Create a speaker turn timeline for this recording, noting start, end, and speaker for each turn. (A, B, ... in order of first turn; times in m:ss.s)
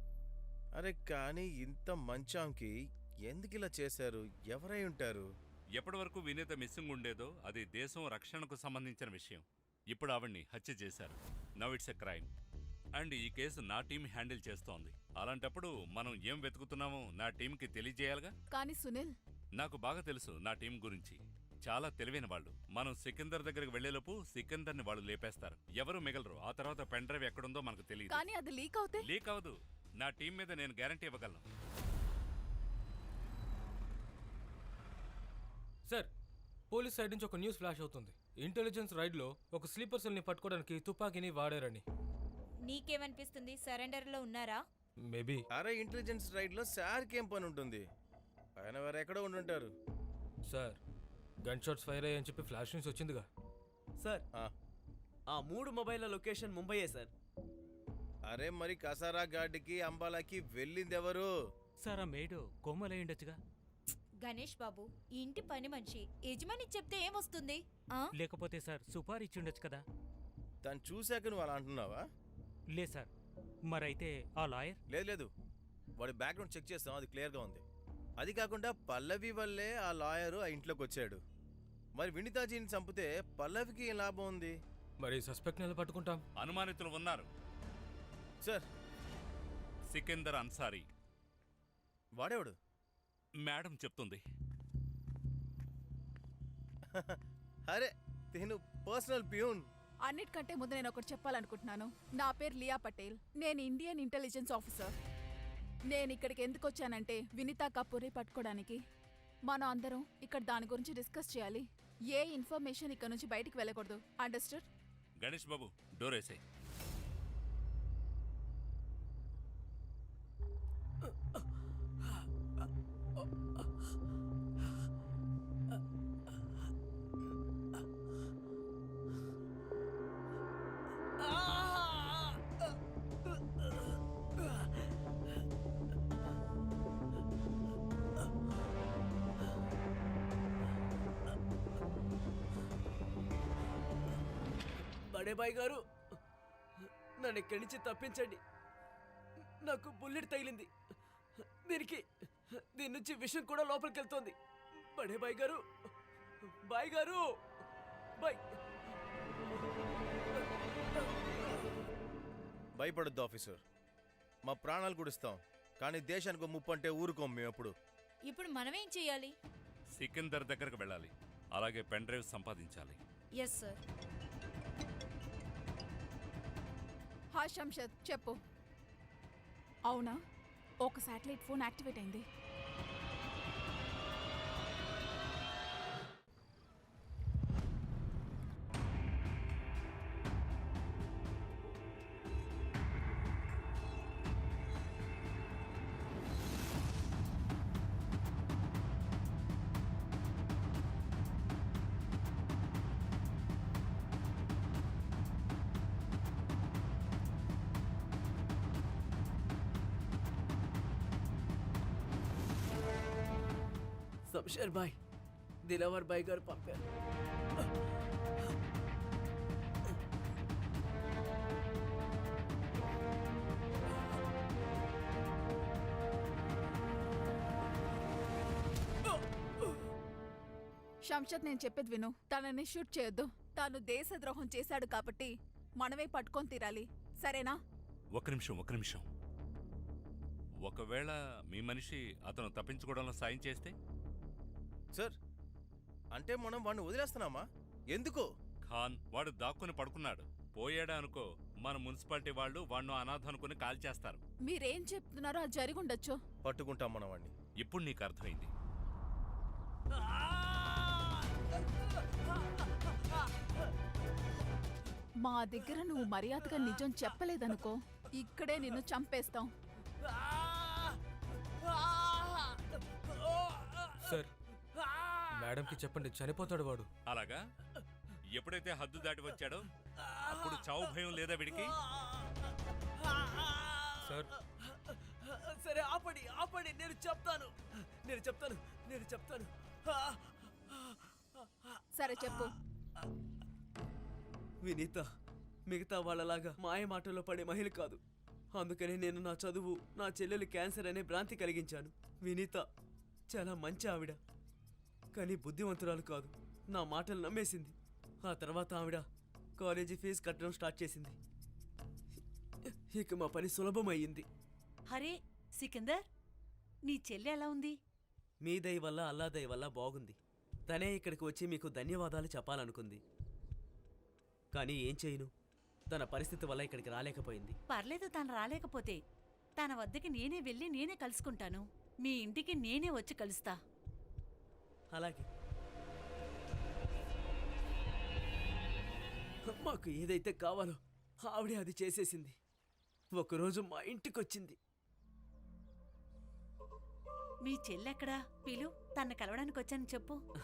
0:00.8-0:02.7 A
0:03.2-0:05.3 A
0:05.8-0:12.3 B
0:13.0-0:18.3 B
0:18.5-0:19.1 C
0:19.6-0:28.2 B
0:28.1-0:29.1 C
0:29.0-0:31.4 B
0:36.7-0:41.8 D
0:42.6-0:44.6 E
0:45.1-0:45.4 D
0:45.5-0:47.8 A
0:48.6-0:49.7 A
0:50.5-0:50.8 D
0:51.4-0:53.2 D
0:55.3-0:57.1 F
0:58.3-1:01.3 A
1:01.8-1:03.4 G
1:04.2-1:08.1 E
1:08.2-1:09.8 G
1:10.6-1:12.0 A
1:12.7-1:13.1 G
1:13.7-1:14.8 G
1:14.9-1:15.3 A
1:16.0-1:17.6 A
1:18.2-1:21.2 A
1:22.0-1:24.6 A
1:25.0-1:26.2 D
1:26.4-1:27.3 B
1:29.9-1:30.8 B
1:32.2-1:32.5 A
1:33.4-1:34.2 B
1:36.9-1:39.6 A
1:40.1-1:44.9 C
1:45.9-1:48.8 C
1:49.5-1:54.7 C
1:55.2-1:56.4 B
2:03.2-2:03.7 F
2:11.2-2:12.7 F
2:13.3-2:14.7 F
2:25.1-2:25.8 F
2:26.8-2:28.4 F
2:29.6-2:30.7 F
2:31.6-2:35.6 F
2:36.6-2:37.2 F
2:38.2-2:38.6 F
2:41.0-2:41.6 F
2:42.8-2:43.6 A
2:44.4-2:47.7 A
2:48.3-2:49.3 E
2:50.0-2:53.0 B
2:53.4-2:53.8 E
2:57.3-2:58.4 C
2:59.9-3:00.2 C
3:00.8-3:02.2 C
3:34.3-3:35.0 F
3:35.6-3:36.8 F
3:51.1-3:57.6 C
3:58.1-3:59.0 B
4:00.6-4:03.7 B
4:06.1-4:08.3 A
4:08.7-4:14.2 B
4:14.4-4:16.2 C
4:16.4-4:17.3 A
4:17.6-4:18.5 B
4:19.9-4:23.5 F
4:25.2-4:29.5 C
4:30.0-4:34.1 F
4:34.0-4:34.3 D
4:34.8-4:35.3 F
4:35.4-4:36.9 D
4:37.1-4:37.4 B
4:38.3-4:39.7 B
4:40.0-4:40.9 F
4:40.2-4:41.7 B
4:41.5-4:51.8 F
4:44.0-4:44.3 D
4:52.0-4:52.5 C
4:54.6-4:55.0 F
4:55.7-4:58.0 F
4:58.5-5:02.6 F
5:03.3-5:04.2 F
5:05.1-5:09.0 F
5:09.6-5:11.2 F
5:12.9-5:14.2 F
5:14.9-5:16.0 H
5:16.8-5:17.8 H
5:18.4-5:20.2 F
5:20.7-5:23.0 F
5:24.5-5:25.3 F
5:25.9-5:27.6 F
5:27.7-5:29.0 H
5:29.6-5:33.6 H
5:34.9-5:35.3 F
5:39.4-5:42.3 F
5:43.1-5:44.6 F
5:47.4-5:50.2 H